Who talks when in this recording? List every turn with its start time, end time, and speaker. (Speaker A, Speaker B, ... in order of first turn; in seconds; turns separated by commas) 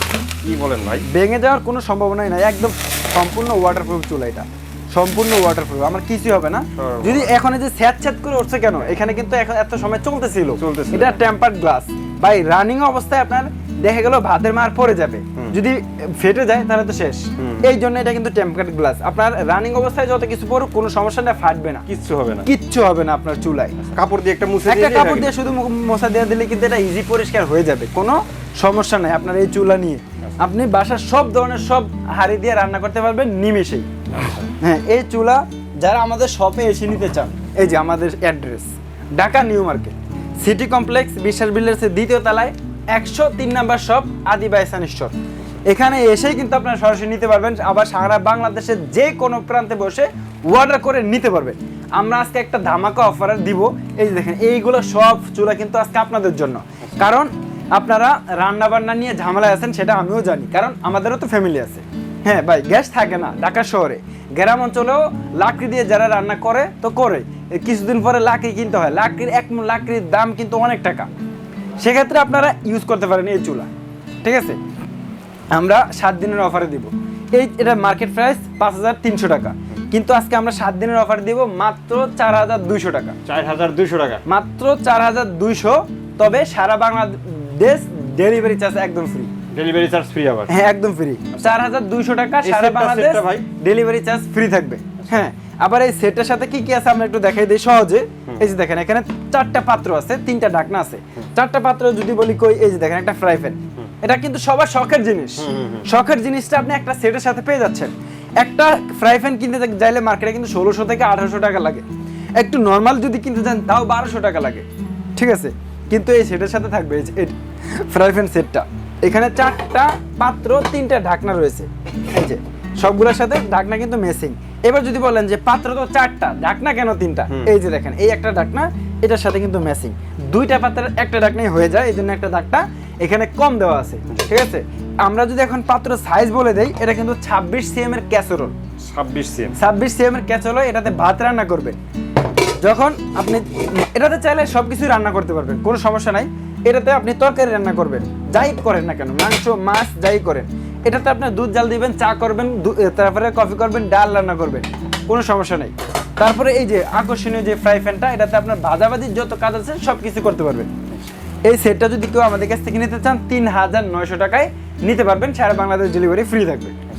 Speaker A: 0.4-1.1, Speaker B: 1.1-21.9, Speaker A: 6.8-7.4, Speaker A: 10.6-11.2, Speaker A: 21.9-22.5, Speaker B: 22.5-23.8, Speaker A: 23.9-25.3, Speaker B: 24.6-33.9, Speaker A: 34.1-34.4, Speaker B: 34.6-45.1, Speaker B: 45.7-71.1, Speaker B: 71.8-73.7, Speaker B: 74.2-74.6, Speaker B: 75.5-83.2, Speaker A: 83.2-84.2, Speaker B: 84.3-89.3, Speaker A: 89.5-90.5, Speaker B: 90.5-111.8, Speaker A: 92.4-93.5, Speaker A: 105.4-105.9, Speaker B: 112.4-114.7, Speaker B: 115.2-117.3, Speaker B: 117.9-138.6, Speaker A: 138.8-139.6, Speaker B: 139.6-141.8, Speaker B: 142.6-160.7, Speaker B: 161.5-166.7